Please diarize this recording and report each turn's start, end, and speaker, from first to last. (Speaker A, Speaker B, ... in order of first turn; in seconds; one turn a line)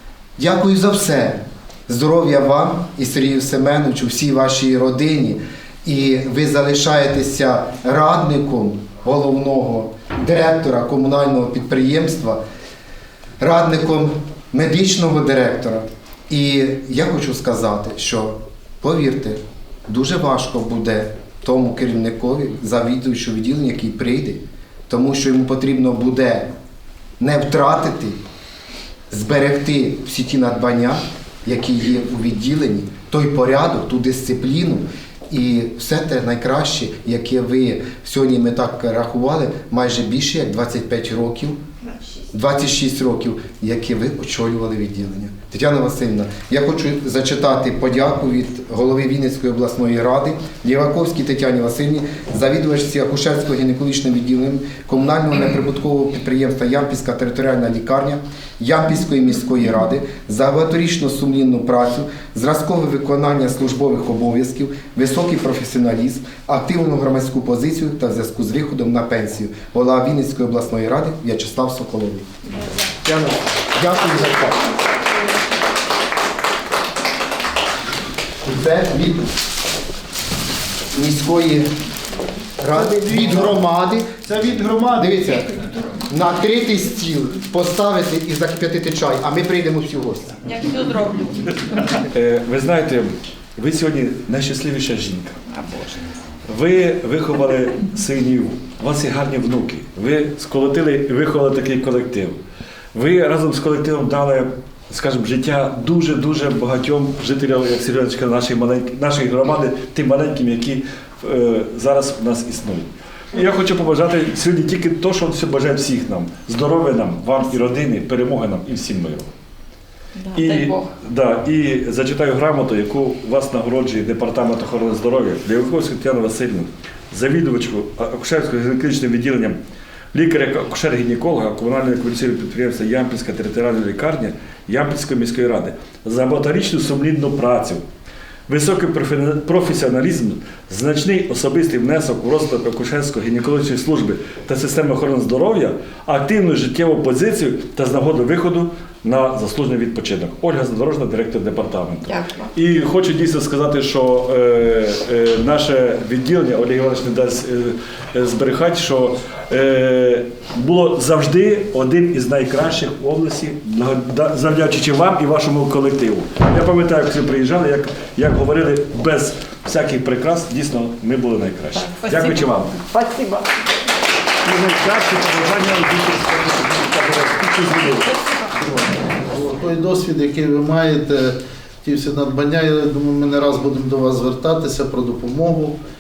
Speaker A: 0.4-12.4
Speaker A: 13.4-26.5
Speaker A: 27.2-28.2
Speaker A: 29.1-41.6
Speaker A: 42.3-72.3
Speaker A: 73.0-74.7
Speaker A: 78.5-79.3
Speaker A: 80.9-81.7
Speaker A: 82.6-84.1
Speaker B: 82.7-83.7
Speaker B: 84.2-85.2
Speaker A: 85.0-85.5
Speaker A: 86.1-90.4
Speaker C: 90.5-92.0
Speaker D: 92.1-95.4
Speaker C: 95.5-96.0
Speaker D: 96.5-102.4
Speaker D: 102.9-119.3
Speaker C: 120.2-120.9
Speaker D: 120.3-129.6
Speaker D: 130.1-137.8
Speaker D: 138.5-172.8
Speaker C: 152.1-152.5
Speaker C: 171.8-173.4
Speaker D: 174.4-178.1
Speaker E: 179.2-185.8